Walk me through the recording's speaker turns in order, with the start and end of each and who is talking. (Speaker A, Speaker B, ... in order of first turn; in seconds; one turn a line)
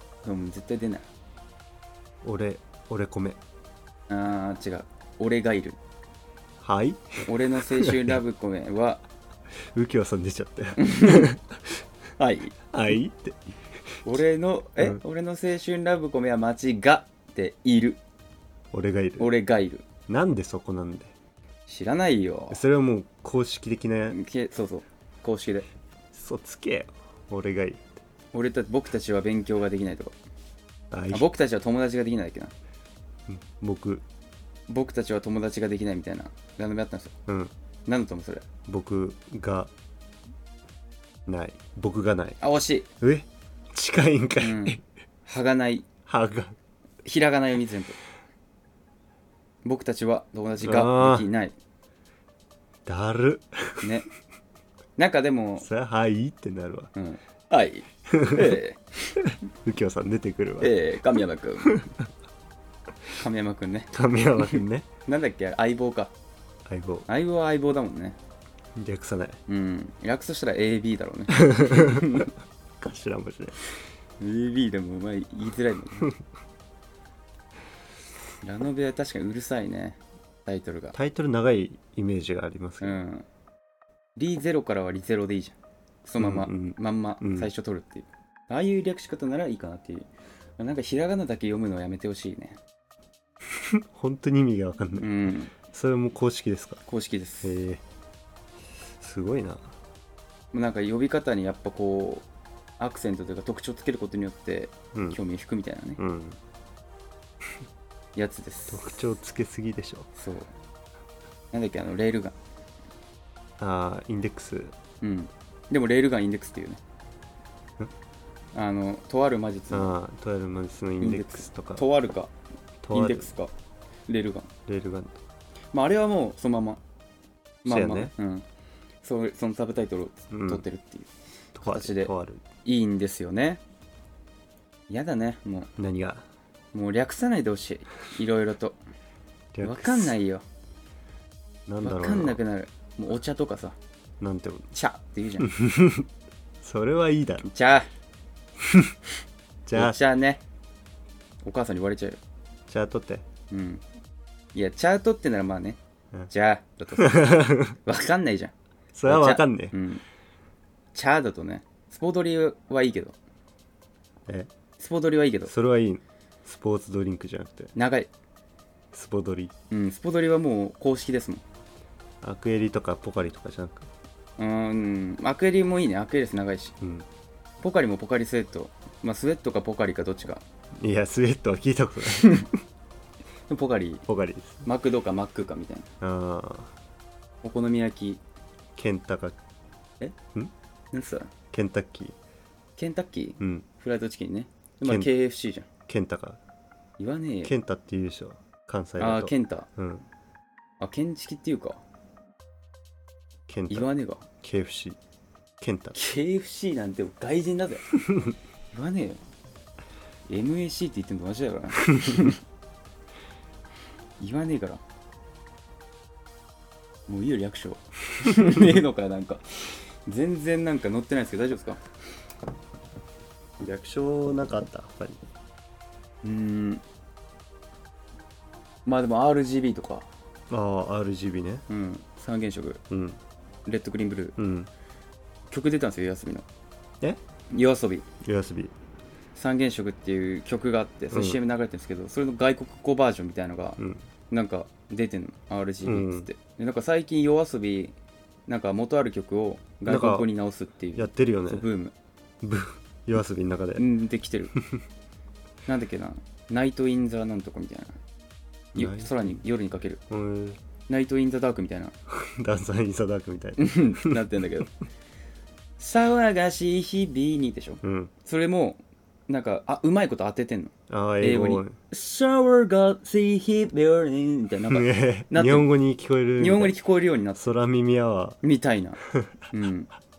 Speaker A: 0.2-1.1
Speaker B: 2.2-3.4
Speaker A: 4.1-5.8
Speaker B: 6.6-8.2
Speaker A: 7.2-9.0
Speaker B: 9.7-11.8
Speaker A: 10.8-11.3
Speaker A: 12.2-12.6
Speaker B: 12.7-14.0
Speaker A: 14.1-18.0
Speaker B: 18.7-19.3
Speaker A: 19.2-19.9
Speaker B: 20.1-21.1
Speaker A: 21.7-22.6
Speaker B: 22.5-24.2
Speaker A: 24.1-25.7
Speaker B: 26.1-27.9
Speaker A: 28.3-30.1
Speaker B: 30.9-31.3
Speaker A: 31.1-32.5
Speaker B: 33.3-34.0
Speaker A: 34.7-37.1
Speaker B: 37.3-37.5
Speaker A: 37.9-38.5
Speaker B: 38.7-39.7
Speaker B: 41.3-42.4
Speaker A: 42.4-42.9
Speaker B: 43.0-44.8
Speaker A: 44.4-45.9
Speaker B: 46.1-46.5
Speaker A: 47.0-48.0
Speaker A: 49.6-51.6
Speaker B: 50.6-51.3
Speaker B: 52.9-53.9
Speaker A: 55.0-55.7
Speaker B: 55.6-56.9
Speaker A: 57.0-59.2
Speaker B: 58.1-58.6
Speaker B: 59.2-60.8
Speaker A: 60.6-61.9
Speaker B: 61.6-62.1
Speaker A: 63.1-66.1
Speaker B: 63.9-64.9
Speaker B: 66.7-67.1
Speaker A: 67.1-68.2
Speaker B: 68.8-69.4
Speaker A: 69.5-72.3
Speaker B: 71.4-72.2
Speaker B: 72.8-73.6
Speaker A: 74.2-76.2
Speaker A: 78.4-81.0
Speaker B: 80.9-83.0
Speaker A: 82.8-83.3
Speaker A: 84.2-92.6
Speaker B: 86.2-87.5
Speaker B: 93.5-96.8
Speaker A: 95.0-95.5
Speaker A: 96.9-97.6
Speaker B: 97.4-97.8
Speaker B: 99.0-99.7
Speaker A: 100.5-102.3
Speaker A: 102.8-106.0
Speaker B: 104.9-105.2
Speaker B: 106.0-106.4
Speaker A: 108.2-109.0
Speaker B: 108.7-110.1
Speaker A: 110.2-110.5
Speaker A: 111.5-112.4
Speaker B: 113.6-114.8
Speaker A: 115.0-116.8
Speaker A: 118.5-119.9
Speaker B: 119.7-121.8
Speaker A: 121.0-122.3
Speaker B: 122.8-123.3
Speaker A: 122.9-123.5
Speaker A: 124.1-124.5
Speaker B: 124.7-125.2
Speaker A: 125.7-126.8
Speaker B: 127.7-128.1
Speaker A: 127.7-128.4
Speaker A: 129.0-131.1
Speaker B: 130.3-130.6
Speaker B: 131.6-132.4
Speaker A: 131.6-132.1
Speaker A: 132.6-133.6
Speaker A: 134.9-135.7
Speaker B: 135.8-136.2
Speaker A: 136.7-138.8
Speaker B: 139.5-140.2
Speaker A: 139.6-140.4
Speaker B: 141.7-142.4
Speaker A: 141.8-143.8
Speaker B: 144.2-144.7
Speaker A: 144.7-145.5
Speaker B: 145.4-146.1
Speaker B: 146.6-147.5
Speaker A: 147.4-147.9
Speaker B: 148.6-148.9
Speaker B: 149.7-150.0
Speaker A: 149.7-150.4
Speaker A: 151.4-152.2
Speaker B: 152.7-153.3
Speaker A: 153.5-153.8
Speaker A: 154.5-155.8
Speaker A: 156.3-158.5
Speaker B: 157.0-157.8
Speaker B: 158.9-159.8
Speaker A: 159.1-160.0
Speaker A: 160.9-163.2
Speaker A: 164.8-165.5
Speaker B: 165.5-167.7
Speaker A: 167.8-168.1
Speaker B: 168.9-169.5
Speaker A: 169.7-171.4
Speaker B: 172.2-173.9
Speaker A: 174.4-176.8
Speaker B: 176.8-177.1
Speaker A: 177.6-180.4
Speaker B: 180.8-182.5
Speaker A: 182.2-182.5
Speaker A: 183.5-184.1
Speaker B: 184.1-184.7
Speaker A: 184.7-185.9
Speaker B: 186.0-186.7
Speaker A: 187.4-188.2
Speaker B: 188.8-189.4
Speaker A: 190.9-191.3
Speaker B: 191.5-192.2
Speaker A: 192.8-195.7
Speaker B: 193.4-193.7
Speaker B: 194.8-195.1
Speaker B: 195.9-196.4
Speaker A: 197.0-197.5
Speaker B: 197.4-200.1
Speaker A: 199.0-199.7
Speaker A: 200.8-201.8
Speaker B: 203.5-203.9
Speaker A: 203.7-204.3
Speaker B: 204.4-205.0
Speaker B: 205.6-206.0
Speaker A: 206.0-207.9
Speaker A: 208.7-209.2
Speaker A: 210.3-212.4
Speaker A: 214.2-214.8
Speaker A: 217.1-221.8
Speaker B: 223.6-225.2
Speaker A: 226.2-226.8
Speaker A: 228.9-230.1
Speaker B: 230.5-231.7
Speaker A: 231.7-232.8
Speaker B: 232.9-233.2
Speaker A: 233.7-234.4
Speaker B: 234.4-234.7
Speaker A: 235.5-236.5
Speaker A: 237.5-238.1
Speaker B: 238.2-238.7
Speaker A: 239.3-243.8
Speaker B: 241.1-241.4
Speaker B: 243.8-244.0
Speaker A: 244.3-247.9
Speaker B: 245.8-246.3
Speaker A: 248.5-251.9
Speaker B: 249.9-250.3
Speaker B: 251.0-251.7
Speaker B: 252.4-253.8
Speaker A: 253.8-254.5
Speaker A: 255.7-258.0
Speaker B: 258.8-259.4
Speaker A: 258.8-260.0
Speaker B: 260.1-260.6
Speaker A: 260.9-261.9
Speaker B: 262.1-264.2
Speaker A: 263.6-264.7
Speaker A: 265.8-275.7
Speaker B: 267.8-268.1
Speaker B: 270.9-271.8
Speaker B: 274.7-276.8
Speaker A: 276.4-277.5
Speaker B: 277.4-278.4
Speaker A: 278.4-279.0
Speaker B: 279.1-279.3
Speaker A: 279.5-279.9